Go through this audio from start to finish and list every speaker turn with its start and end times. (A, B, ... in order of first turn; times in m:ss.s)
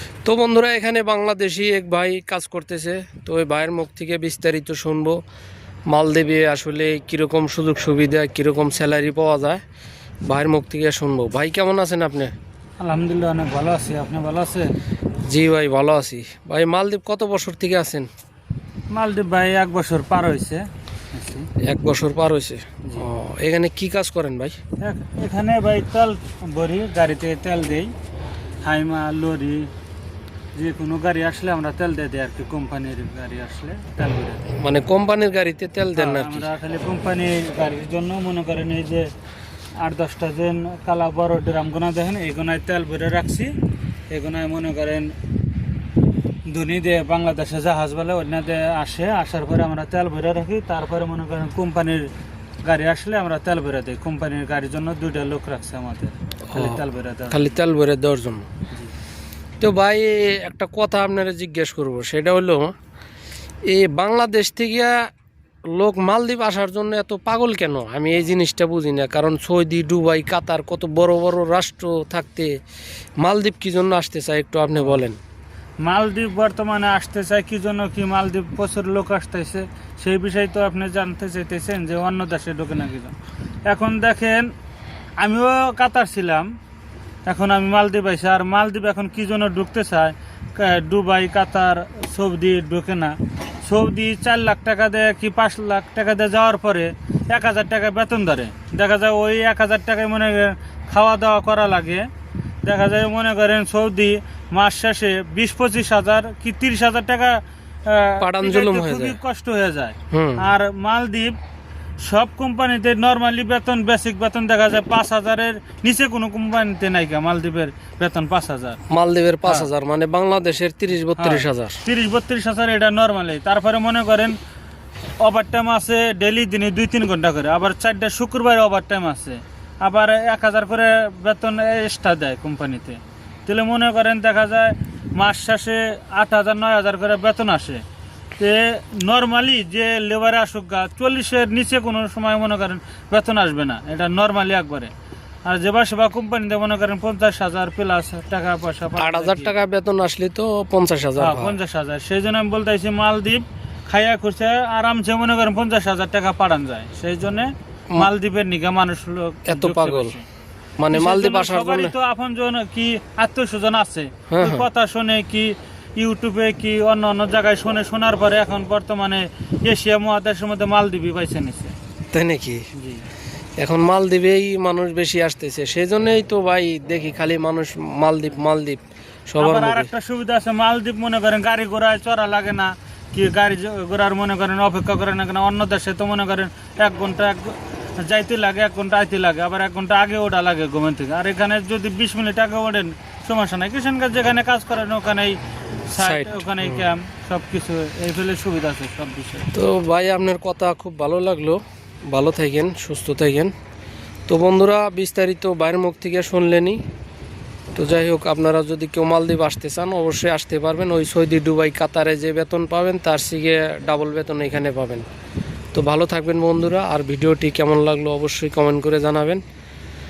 0:00.2-0:05.2 A
0:05.9-0:09.6 A
0:10.2-0:12.3 A
0:12.8-0:14.7 B
0:15.3-0:18.1 A
0:18.9-0:21.5 B
0:21.6-0:24.6 A
0:24.8-0:27.9 B
0:28.6-0:29.7 B
0:30.5-0:34.4 B
0:34.5-0:36.5 A
0:35.9-0:39.1 B
0:39.8-0:43.5 B
0:44.1-0:45.1 B
0:46.5-0:52.1 B
0:52.6-0:57.6 B
0:56.5-0:56.8 A
0:57.3-0:58.4 A
0:59.6-1:02.7 A
1:03.7-1:05.0 A
1:05.7-1:12.5 A
1:13.2-1:15.2 A
1:14.8-1:15.0 B
1:15.8-1:23.1 B
1:23.7-1:24.5 B
1:25.2-1:26.5 B
1:27.2-1:42.0 B
1:42.6-1:51.4 B
1:48.2-1:49.2 A
1:50.1-1:50.4 A
1:52.0-1:58.8 B
1:58.9-2:01.8 A
2:01.2-2:04.4 B
2:05.2-2:17.8 B
2:18.4-2:24.9 B
2:25.4-2:29.5 B
2:29.0-2:31.5 A
2:31.2-2:40.2 B
2:39.5-2:40.2 A
2:40.8-2:41.9 A
2:40.9-2:51.7 B
2:44.3-2:44.6 A
2:52.1-2:52.6 A
2:52.7-2:53.0 B
2:53.6-2:59.9 A
2:59.4-3:15.4 B
3:15.9-3:19.5 B
3:16.0-3:16.8 A
3:19.5-3:23.5 A
3:24.3-3:26.8 A
3:27.7-3:35.0 A
3:35.7-3:39.4 A